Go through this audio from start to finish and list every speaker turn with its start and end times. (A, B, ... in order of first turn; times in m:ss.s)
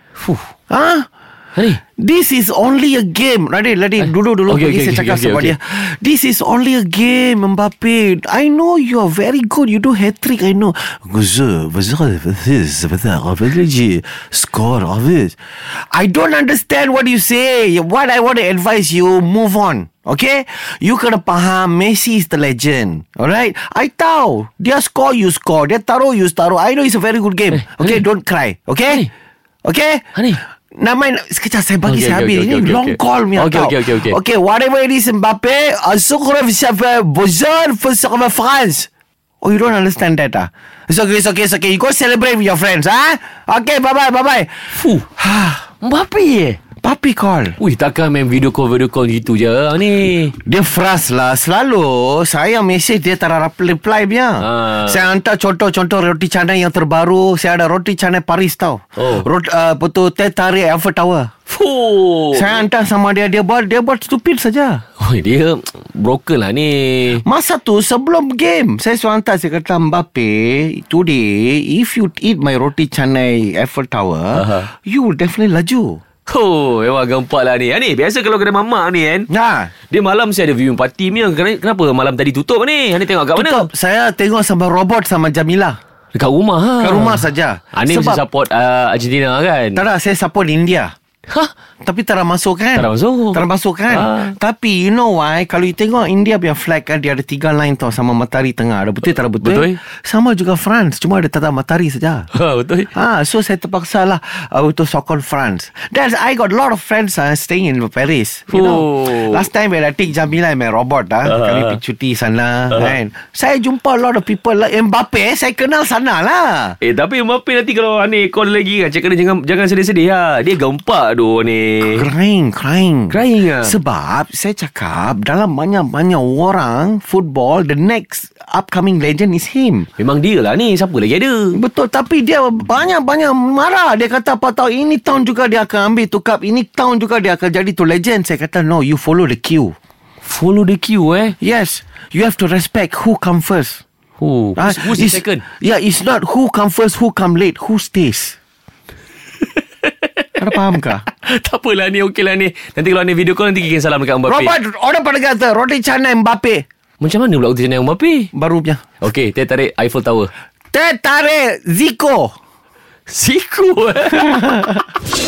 0:00.2-0:00.5 A
0:00.7-0:01.1 B
0:01.5-0:01.8 A
0:02.0-0:29.0 B
0:04.0-0:05.5 A
0:27.5-0:28.0 A
0:29.6-0:30.1 B
0:30.8-0:38.9 B
0:31.8-0:34.2 A
0:39.4-0:45.6 B
0:44.7-0:45.0 A
0:45.8-0:46.6 A
0:46.8-0:47.6 B
0:47.6-0:50.3 A
0:50.4-1:01.3 B
0:54.4-0:55.0 A
0:59.0-0:59.2 A
1:01.5-1:02.6 A
1:02.3-1:04.8 B
1:05.0-1:07.2 A
1:07.2-1:16.0 B
1:14.3-1:14.7 A
1:16.3-1:19.3 A
1:19.3-1:19.7 B
1:19.9-1:23.7 A
1:23.3-1:25.8 B
1:26.1-1:29.8 A
1:26.8-1:28.2 B
1:29.7-1:30.9 B
1:31.8-1:42.3 B
1:32.7-1:34.3 A
1:39.4-1:39.8 A
1:42.3-1:42.9 A
1:42.9-1:56.8 B
1:48.5-1:49.4 A
1:51.2-1:51.8 A
1:56.8-2:02.1 A
2:01.8-2:09.9 B
2:03.1-2:03.8 A
2:10.0-2:11.6 A
2:11.5-2:19.7 B
2:20.2-2:21.4 A
2:21.4-2:23.8 B
2:24.2-2:25.4 A
2:24.6-2:28.4 B
2:29.4-2:34.5 A
2:30.4-2:31.0 B
2:34.3-2:36.6 B
2:37.0-2:38.3 A
2:38.3-2:38.8 B
2:39.0-2:40.3 A
2:40.7-2:42.3 B
2:43.1-2:44.4 A
2:44.1-2:44.8 B